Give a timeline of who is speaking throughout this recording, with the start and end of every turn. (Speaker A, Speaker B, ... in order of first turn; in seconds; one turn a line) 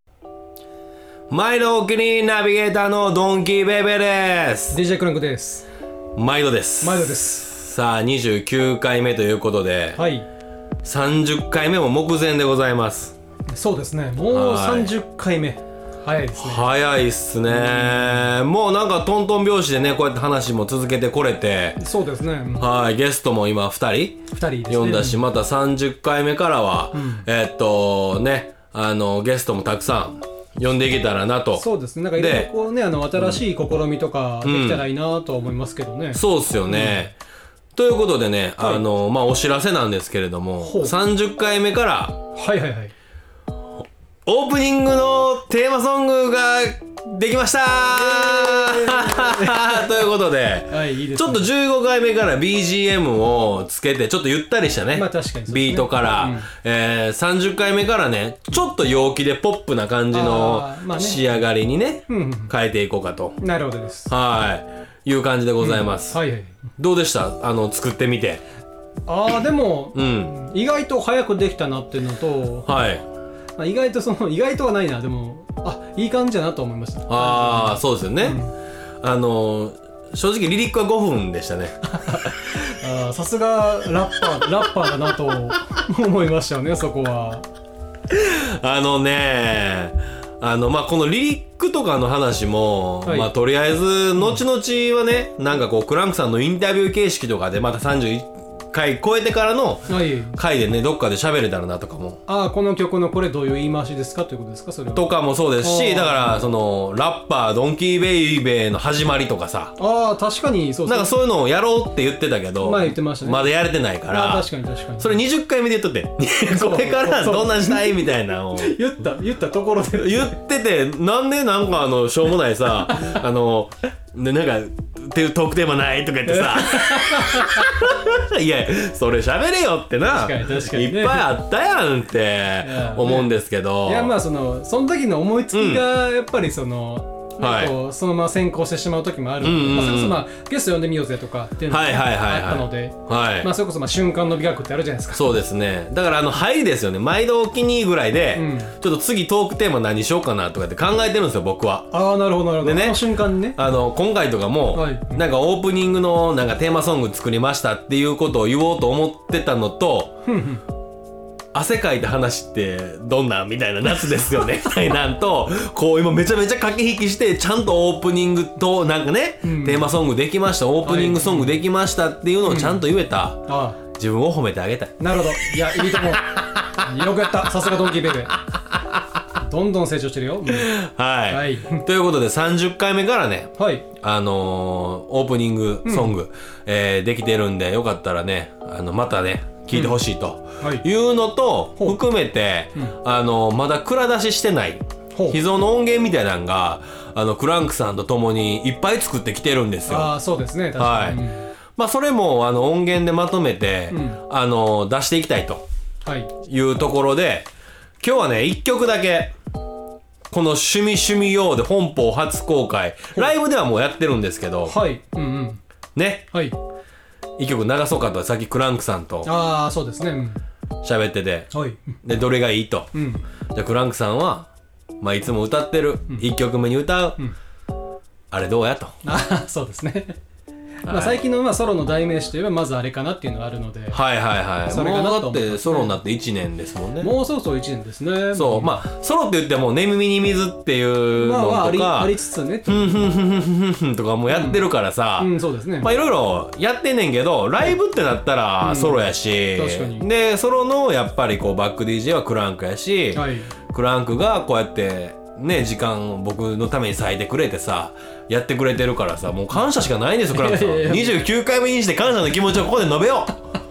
Speaker A: 1.3-4.8
Speaker B: 4.7-5.7
Speaker A: 6.2-10.0
Speaker B: 6.8-7.5
Speaker B: 9.9-10.2
Speaker A: 10.8-13.1
Speaker B: 13.5-16.7
Speaker A: 14.3-14.9
Speaker A: 16.3-21.8
Speaker B: 17.5-18.3
Speaker B: 21.8-22.7
Speaker A: 22.6-31.6
Speaker B: 24.3-25.2
Speaker B: 26.9-27.2
Speaker B: 31.5-37.1
Speaker A: 32.2-32.5
Speaker A: 33.1-33.4
Speaker A: 34.4-34.8
Speaker A: 36.1-37.1
Speaker A: 37.8-42.2
Speaker B: 40.6-40.9
Speaker B: 42.3-42.9
Speaker A: 44.2-63.4
Speaker B: 47.9-49.9
Speaker B: 50.7-51.5
Speaker B: 54.9-56.5
Speaker B: 60.1-61.4
Speaker B: 62.1-62.5
Speaker B: 63.4-64.1
Speaker A: 64.1-66.2
Speaker B: 65.6-66.5
Speaker A: 66.8-68.4
Speaker B: 69.1-72.8
Speaker A: 69.9-70.3
Speaker A: 72.7-73.0
Speaker B: 73.5-78.5
Speaker A: 77.1-78.4
Speaker A: 79.0-81.8
Speaker B: 81.9-87.5
Speaker A: 88.1-102.2
Speaker B: 93.0-93.3
Speaker B: 99.9-100.4
Speaker B: 102.3-105.1
Speaker A: 104.9-109.7
Speaker B: 105.6-106.5
Speaker B: 109.8-111.1
Speaker A: 110.8-114.5
Speaker B: 112.6-113.5
Speaker B: 114.0-115.2
Speaker A: 115.0-118.8
Speaker B: 116.5-118.0
Speaker B: 118.5-120.3
Speaker A: 119.9-134.1
Speaker B: 122.9-123.2
Speaker B: 126.2-127.7
Speaker B: 130.1-131.3
Speaker B: 132.6-145.3
Speaker A: 135.5-135.8
Speaker A: 137.4-137.7
Speaker A: 139.4-140.2
Speaker A: 141.7-143.5
Speaker A: 145.1-151.9
Speaker B: 148.3-148.7
Speaker B: 151.9-153.6
Speaker A: 152.6-160.2
Speaker B: 154.7-155.2
Speaker B: 160.2-160.6
Speaker A: 161.5-174.9
Speaker B: 169.4-169.8
Speaker B: 170.8-171.6
Speaker B: 172.4-172.8
Speaker B: 173.4-173.8
Speaker B: 175.0-178.4
Speaker B: 179.4-180.7
Speaker A: 180.5-183.5
Speaker B: 181.3-181.8
Speaker B: 183.6-183.8
Speaker A: 184.0-200.1
Speaker B: 185.8-186.1
Speaker B: 189.7-190.0
Speaker B: 190.6-190.8
Speaker B: 195.1-195.4
Speaker B: 199.9-201.5
Speaker A: 200.8-201.2
Speaker A: 201.8-205.6
Speaker B: 203.9-204.2
Speaker B: 206.0-206.3
Speaker A: 206.4-207.5
Speaker A: 208.0-209.3
Speaker A: 210.3-214.8
Speaker B: 214.7-215.6
Speaker A: 215.9-216.3
Speaker A: 217.4-219.3
Speaker B: 219.2-220.4
Speaker A: 220.8-221.5
Speaker B: 221.5-221.9
Speaker A: 222.0-222.9
Speaker B: 222.9-223.2
Speaker A: 223.5-224.5
Speaker A: 225.0-227.2
Speaker A: 228.3-228.9
Speaker B: 229.0-230.2
Speaker A: 230.8-231.2
Speaker B: 230.8-234.0
Speaker A: 233.9-237.1
Speaker B: 234.7-236.0
Speaker B: 237.0-238.8
Speaker A: 238.3-242.1
Speaker B: 241.2-243.1
Speaker A: 242.7-263.4
Speaker B: 244.3-244.6
Speaker B: 245.2-245.9
Speaker B: 248.6-250.1
Speaker B: 253.1-253.5
Speaker B: 260.3-261.2